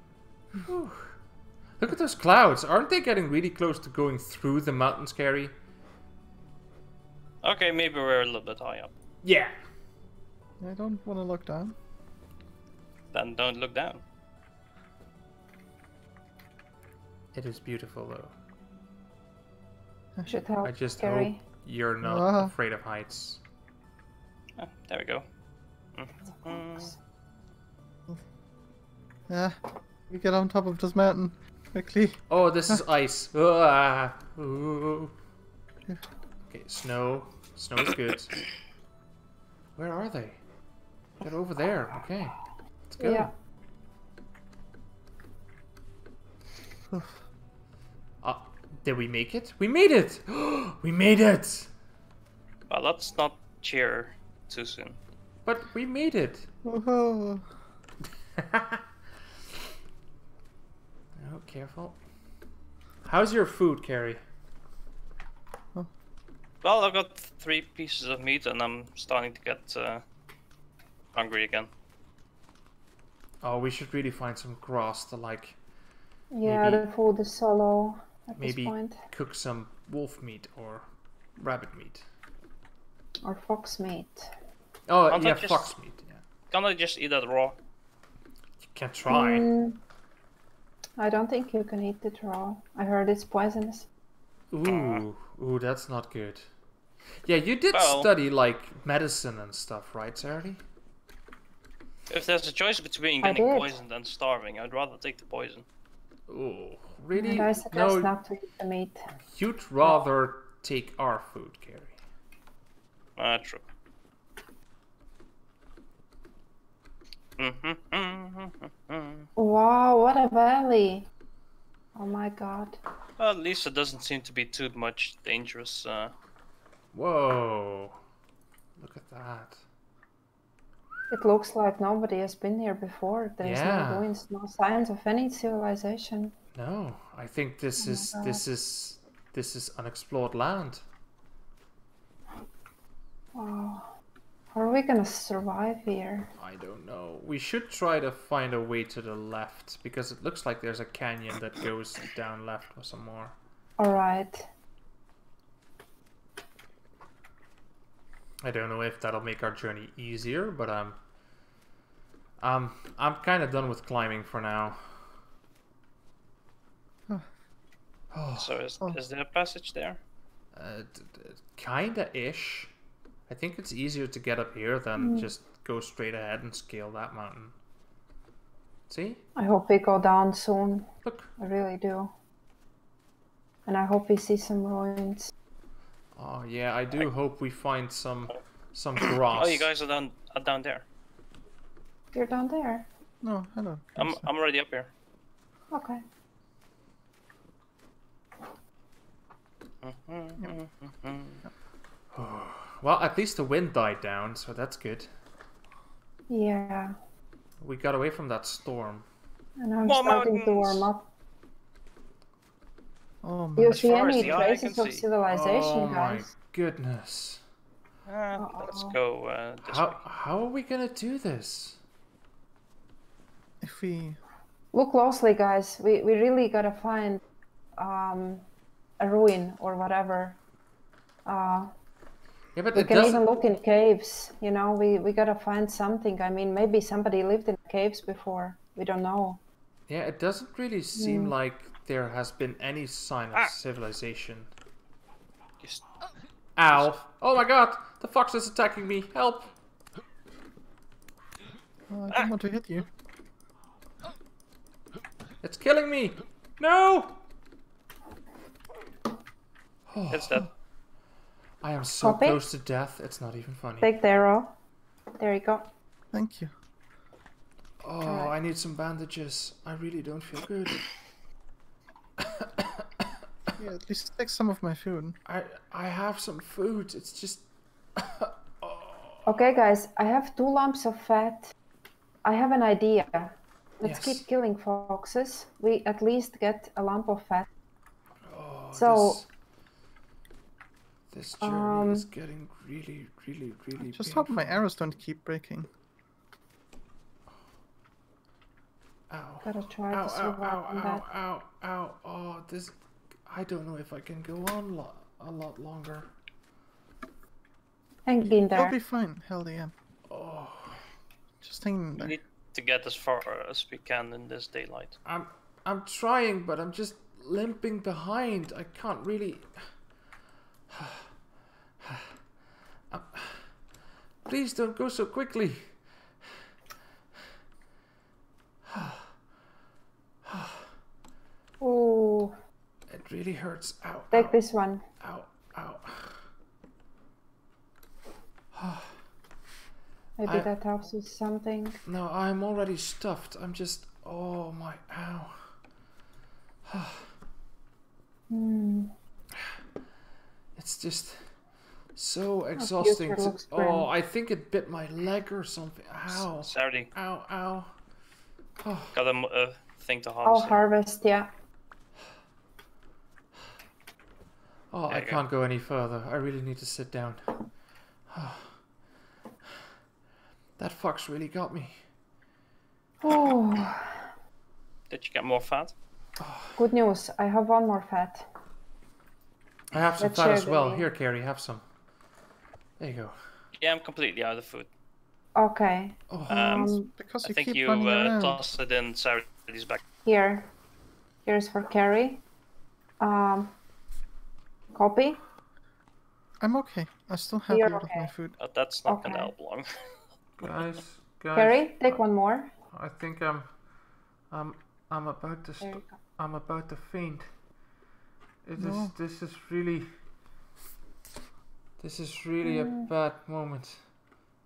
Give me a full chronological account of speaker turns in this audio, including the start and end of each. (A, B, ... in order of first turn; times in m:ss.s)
0:00.6-0:01.2 A
0:01.8-0:05.5 A
0:07.4-0:08.9 B
0:09.2-0:09.5 A
0:10.6-0:11.8 C
0:13.1-0:14.0 B
0:17.3-0:18.3 A
0:20.2-0:21.4 D
0:20.6-0:23.4 A
0:22.0-0:22.5 C
0:24.6-0:25.2 B
0:26.0-0:26.9 B
0:26.4-0:26.9 D
0:29.3-0:29.6 C
0:30.1-0:32.8 C
0:32.3-0:35.1 A
0:36.5-0:38.4 A
0:39.8-0:40.4 A
0:41.2-0:42.4 A
0:42.9-0:43.3 A
0:43.0-0:43.3 D
0:48.2-0:51.7 A
0:52.7-0:55.0 B
0:55.4-0:56.5 A
0:56.6-0:57.5 C
0:58.4-0:58.8 A
1:01.2-1:02.0 A
1:03.0-1:04.2 A
1:06.6-1:10.0 B
1:11.2-1:11.7 B
1:13.4-1:15.6 A
1:16.3-1:19.0 D
1:16.4-1:16.8 A
1:18.4-1:20.9 A
1:21.4-1:22.0 A
1:23.2-1:24.3 D
1:24.9-1:26.2 A
1:25.1-1:25.7 B
1:26.5-1:27.6 B
1:28.6-1:29.5 A
1:29.1-1:29.8 D
1:31.0-1:33.9 D
1:34.5-1:36.5 A
1:34.7-1:35.0 B
1:37.2-1:40.6 A
1:37.7-1:38.1 B
1:42.1-1:45.6 B
1:43.2-1:43.8 D
1:46.3-1:48.1 A
1:47.1-1:49.1 D
1:49.3-1:52.0 A
1:53.2-1:53.6 B
1:57.4-1:59.3 B
1:59.4-2:01.1 D
2:01.9-2:02.8 D
2:03.2-2:06.1 B
2:06.9-2:08.0 A
2:08.8-2:09.6 A
2:11.1-2:16.3 D
2:13.4-2:14.1 A
2:16.5-2:20.8 A
2:17.8-2:18.4 D
2:23.4-2:23.9 D
2:24.5-2:26.3 D
2:26.4-2:33.4 A
2:33.8-2:34.5 D
2:38.4-2:41.0 A
2:42.4-2:45.0 A
2:48.1-2:48.6 A
2:48.4-2:50.0 B
2:50.5-2:52.7 A
2:53.3-2:57.6 A
2:55.0-2:55.3 D
2:58.9-2:59.2 A
2:59.4-3:00.9 D
3:01.0-3:01.3 A
3:01.4-3:02.1 D
3:03.7-3:05.3 D
3:06.2-3:09.7 A
3:09.0-3:10.8 B
3:12.1-3:12.9 D
3:13.2-3:14.3 C
3:14.0-3:14.9 B
3:15.7-3:16.0 D
3:19.8-3:21.4 B
3:22.1-3:25.1 A
3:26.3-3:26.9 D
3:27.6-3:29.0 A
3:29.6-3:31.1 D
3:29.8-3:30.9 B
3:33.2-3:34.0 C
3:33.6-3:36.3 D
3:33.7-3:35.1 B
3:35.2-3:37.4 A
3:38.1-3:40.0 B
3:38.4-3:39.0 D
3:39.6-3:41.8 A
3:43.6-3:44.2 C
3:44.7-3:47.2 D
3:47.8-3:48.5 D
3:49.0-3:50.4 D
3:51.2-3:51.7 D
3:52.6-3:53.2 A
3:52.7-3:59.4 D
3:59.9-4:04.5 A
4:01.0-4:01.3 D
4:06.6-4:09.5 A
4:06.7-4:07.0 B
4:11.9-4:12.9 C
4:15.4-4:17.2 A
4:19.9-4:20.5 A
4:20.1-4:20.5 B
4:21.6-4:23.9 A
4:22.0-4:22.4 D
4:23.8-4:24.5 D
4:25.2-4:25.7 D
4:26.1-4:26.5 C
4:27.8-4:30.9 A
4:28.0-4:28.3 D
4:32.2-4:32.8 A
4:33.6-4:35.2 C
4:35.3-4:37.5 A
4:38.0-4:39.4 A
4:39.3-4:41.5 D
4:42.2-4:47.5 D
4:43.8-4:44.2 A
4:48.3-4:49.3 A
4:48.7-4:49.2 D
4:51.1-4:54.6 A
4:51.4-4:52.1 D
4:53.8-4:55.7 C
4:59.1-5:06.1 A
4:59.4-5:01.0 D
5:08.1-5:08.8 D
5:08.3-5:09.7 C
5:10.1-5:10.8 A
5:11.4-5:12.2 C
5:12.0-5:15.0 B
5:15.0-5:19.5 A
5:20.7-5:21.1 A
5:21.8-5:22.1 A
5:22.9-5:23.5 A
5:24.3-5:25.7 A
5:28.7-5:29.1 A
5:30.2-5:30.7 A
5:31.6-5:32.3 D
5:32.9-5:34.4 A
5:34.1-5:34.8 D
5:35.0-5:36.2 A
5:38.5-5:38.9 A
5:40.2-5:41.8 D
5:41.8-5:45.4 A
5:46.7-5:47.1 A
5:48.3-5:48.9 D
5:50.6-5:51.3 A
5:52.0-5:57.7 A
5:52.6-5:53.9 D
5:56.1-5:56.9 B
5:58.6-5:58.9 A
5:58.9-6:00.6 B
6:00.2-6:01.3 D
6:04.7-6:07.3 A
6:04.9-6:05.2 B
6:08.1-6:08.5 A
6:10.6-6:11.8 A
6:13.0-6:14.1 D
6:14.9-6:15.7 B
6:16.2-6:16.6 A
6:16.6-6:18.3 D
6:19.7-6:21.6 A
6:20.0-6:20.9 D
6:22.8-6:23.2 A
6:23.6-6:24.7 B
6:25.4-6:26.9 D
6:26.1-6:26.8 A
6:26.3-6:29.8 B
6:26.9-6:28.4 C
6:30.0-6:30.5 D
6:31.2-6:32.2 D
6:33.0-6:33.6 D
6:34.7-6:35.2 D
6:36.4-6:38.4 C
6:37.5-6:38.1 D
6:38.4-6:39.7 B
6:38.9-6:39.3 D
6:40.4-6:42.0 A
6:41.3-6:42.5 D
6:42.7-6:43.5 A
6:44.3-6:47.3 A
6:45.6-6:46.0 D
6:48.4-6:49.9 A
6:48.6-6:49.0 C
6:51.8-6:53.9 A
6:52.4-6:52.9 D